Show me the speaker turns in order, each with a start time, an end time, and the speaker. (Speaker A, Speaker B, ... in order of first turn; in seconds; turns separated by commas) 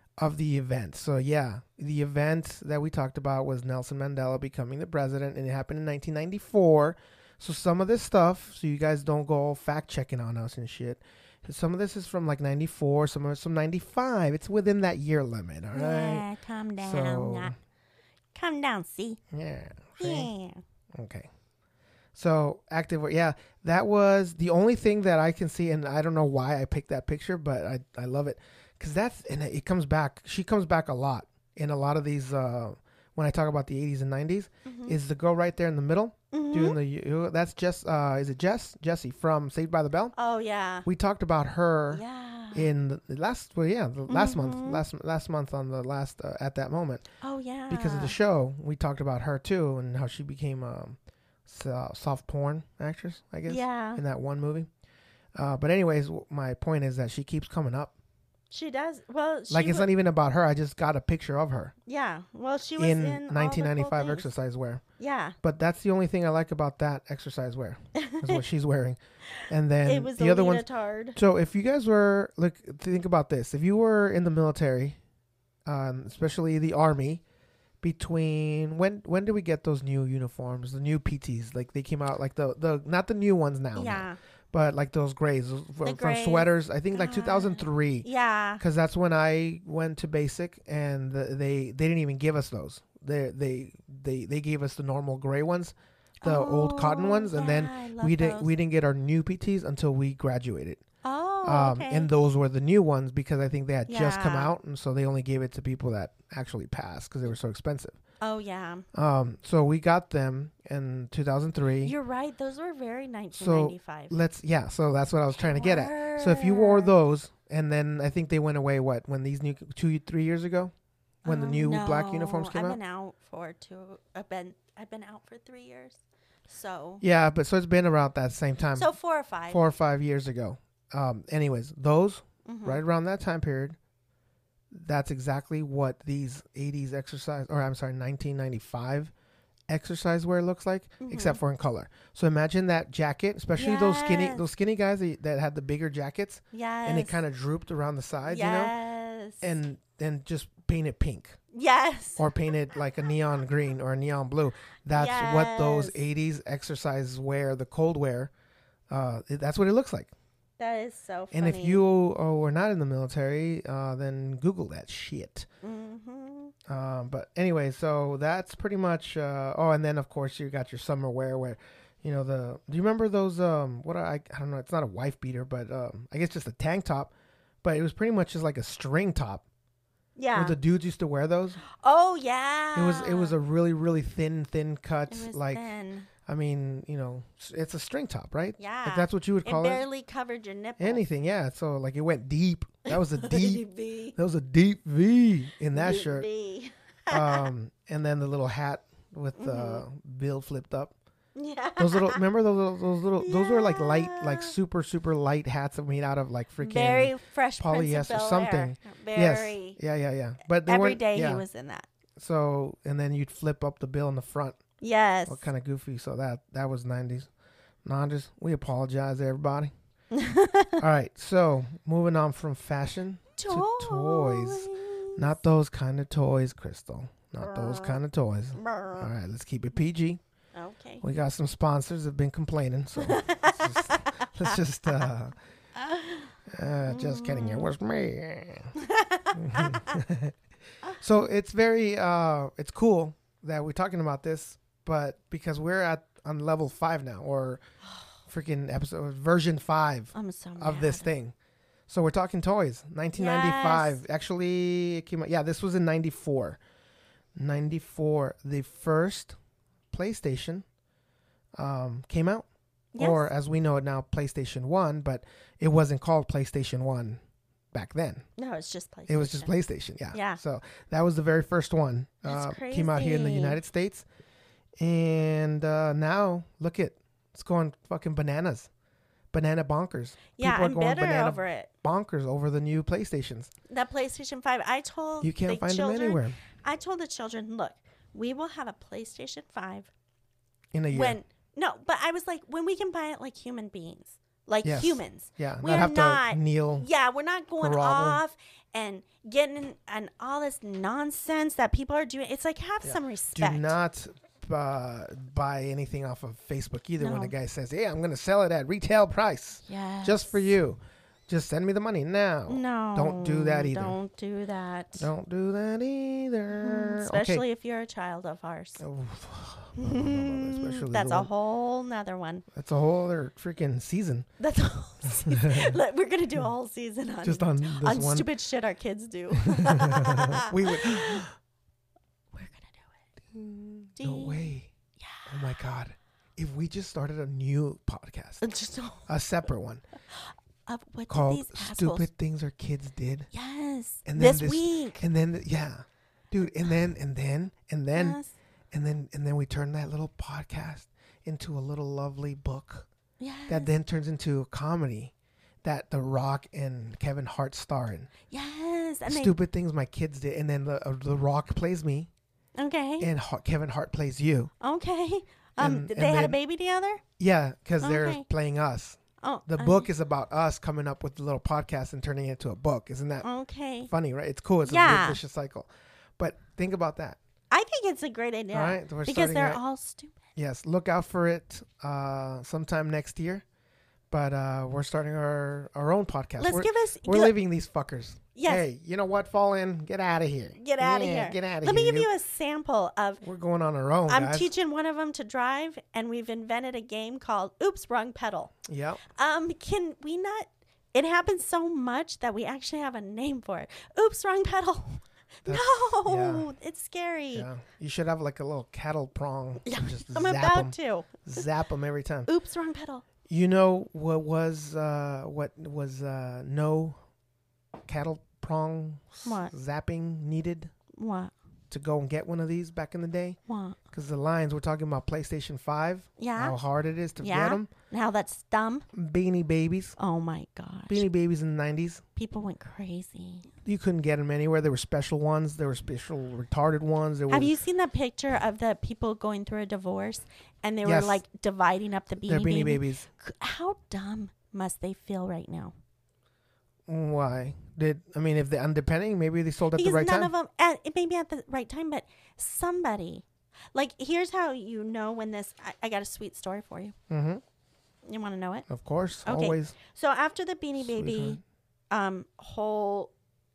Speaker A: 0.2-16.2, Speaker B: 15.7-17.5, Speaker A: 16.8-17.5, Speaker B: 18.4-19.2, Speaker A: 19.3-20.3, Speaker B: 20.0-20.6, Speaker A: 20.9-21.3, Speaker A: 22.1-40.1, Speaker B: 34.6-35.0, Speaker B: 36.3-36.8, Speaker B: 40.1-40.9, Speaker A: 40.9-47.1, Speaker B: 41.9-42.7, Speaker B: 44.1-44.8, Speaker B: 47.2-48.1, Speaker A: 47.7-54.7, Speaker B: 53.5-54.0, Speaker A: 55.4-57.9, Speaker B: 58.5-59.9, Speaker A: 59.5-61.7, Speaker B: 61.9-64.3, Speaker A: 62.8-64.8, Speaker B: 65.0-65.4, Speaker A: 65.4-75.0, Speaker B: 68.0-68.4, Speaker B: 69.4-71.2, Speaker A: 75.7-77.2, Speaker A: 77.8-88.1, Speaker B: 83.8-84.2, Speaker B: 85.8-88.6, Speaker A: 88.6-100.8, Speaker B: 96.2-98.5, Speaker B: 101.0-102.1, Speaker A: 101.4-108.0, Speaker B: 103.9-104.5, Speaker B: 108.2-108.8, Speaker A: 108.9-111.9, Speaker B: 111.8-114.1, Speaker A: 113.3-120.7, Speaker B: 115.4-116.9, Speaker A: 121.2-122.8, Speaker B: 121.2-127.0, Speaker A: 127.0-128.9, Speaker B: 128.8-129.7, Speaker A: 129.5-133.8, Speaker B: 132.4-132.8, Speaker A: 134.7-139.1, Speaker A: 139.7-148.7, Speaker B: 141.0-141.4, Speaker B: 143.6-144.4, Speaker B: 146.5-147.2, Speaker B: 148.2-149.5, Speaker A: 149.4-151.4, Speaker B: 151.5-152.3, Speaker A: 152.2-158.3, Speaker B: 154.9-156.0, Speaker A: 158.9-160.1, Speaker B: 160.6-161.8, Speaker A: 161.3-165.5, Speaker B: 165.6-166.5, Speaker A: 166.7-177.1, Speaker A: 177.6-179.4, Speaker B: 180.2-180.6, Speaker A: 180.3-181.6, Speaker B: 181.7-183.4, Speaker A: 182.7-185.6, Speaker B: 185.1-186.1, Speaker A: 186.2-189.8, Speaker B: 188.6-191.0, Speaker A: 190.8-193.6, Speaker B: 192.9-194.2, Speaker A: 194.1-196.3, Speaker B: 195.7-197.5, Speaker A: 197.1-200.9, Speaker B: 199.4-199.8, Speaker B: 201.4-202.2, Speaker A: 201.8-211.4, Speaker B: 203.2-204.5, Speaker B: 206.6-209.8, Speaker B: 210.7-211.9, Speaker A: 212.2-214.6, Speaker B: 214.8-215.4, Speaker A: 215.3-217.3, Speaker A: 217.8-219.7, Speaker B: 220.1-220.8, Speaker A: 220.8-230.2, Speaker B: 223.4-225.3, Speaker B: 227.4-228.0, Speaker B: 228.5-229.1, Speaker B: 230.5-231.0, Speaker A: 231.0-235.3, Speaker B: 233.0-234.5, Speaker B: 235.8-236.3, Speaker A: 236.5-238.7, Speaker B: 236.9-237.7, Speaker B: 238.8-240.0, Speaker A: 239.3-240.3, Speaker A: 241.0-247.6, Speaker A: 248.3-251.3, Speaker B: 250.1-251.1, Speaker A: 251.9-256.6, Speaker B: 253.2-254.0, Speaker A: 257.4-259.4, Speaker A: 259.9-260.6, Speaker A: 261.6-262.4, Speaker B: 262.9-263.3, Speaker A: 263.0-267.2, Speaker A: 267.7-268.2, Speaker B: 268.4-269.5, Speaker A: 269.1-274.0, Speaker B: 270.1-270.4, Speaker B: 272.2-273.6, Speaker A: 274.8-278.7, Speaker A: 279.3-283.5, Speaker B: 280.4-281.7, Speaker B: 283.7-289.9, Speaker A: 285.2-286.4, Speaker A: 290.7-291.2, Speaker B: 290.9-303.8, Speaker A: 294.6-296.9, Speaker A: 297.6-298.2, Speaker A: 302.8-314.0, Speaker B: 307.0-307.3, Speaker B: 309.6-310.5, Speaker B: 312.5-315.1, Speaker A: 315.0-317.4, Speaker B: 316.5-318.8, Speaker A: 318.8-321.3, Speaker B: 319.8-322.4, Speaker A: 322.5-324.3, Speaker B: 324.4-331.2, Speaker A: 325.0-325.8, Speaker A: 327.2-328.3, Speaker A: 329.4-331.3, Speaker B: 332.3-333.0, Speaker A: 333.3-334.7, Speaker B: 334.0-335.3, Speaker A: 335.3-338.4, Speaker B: 338.4-339.1, Speaker A: 339.1-339.8, Speaker B: 340.6-342.1, Speaker A: 341.1-343.3, Speaker B: 343.3-345.0, Speaker A: 344.1-348.2, Speaker B: 347.9-348.4, Speaker A: 348.7-352.9, Speaker B: 353.2-353.7, Speaker A: 353.5-355.1, Speaker A: 355.6-358.1, Speaker B: 358.3-359.4, Speaker A: 359.1-362.1, Speaker B: 362.6-363.1, Speaker A: 363.0-364.5, Speaker B: 364.6-367.0, Speaker A: 365.6-366.4, Speaker A: 367.2-373.3, Speaker B: 367.8-368.2, Speaker B: 369.2-369.9, Speaker B: 373.2-373.9, Speaker A: 373.9-377.2, Speaker B: 374.6-375.2, Speaker B: 377.5-380.2, Speaker A: 378.5-379.6, Speaker A: 380.4-383.4, Speaker A: 384.1-392.1, Speaker B: 386.4-387.4, Speaker B: 388.4-388.6, Speaker B: 390.6-393.2, Speaker A: 393.2-394.5, Speaker B: 394.1-398.5, Speaker A: 398.6-399.0, Speaker B: 399.1-407.5, Speaker A: 405.4-406.5, Speaker A: 407.3-412.3, Speaker B: 409.6-411.4, Speaker B: 412.3-413.0, Speaker A: 413.2-417.0, Speaker A: 417.9-420.7, Speaker B: 419.2-419.5, Speaker B: 420.9-421.3, Speaker A: 421.7-423.4, Speaker B: 423.5-423.8, Speaker A: 423.9-427.7, Speaker B: 426.2-426.6, Speaker B: 427.2-428.9, Speaker A: 428.9-429.9, Speaker B: 430.0-431.1, Speaker A: 430.9-432.0, Speaker B: 432.1-433.5, Speaker A: 433.6-437.5, Speaker B: 437.3-445.7, Speaker A: 440.9-441.2, Speaker A: 442.2-443.1, Speaker A: 446.9-450.3, Speaker B: 449.7-456.9, Speaker A: 457.1-457.4, Speaker B: 458.0-458.7, Speaker A: 458.7-459.7, Speaker B: 459.2-461.4, Speaker A: 460.8-461.4, Speaker B: 461.9-463.1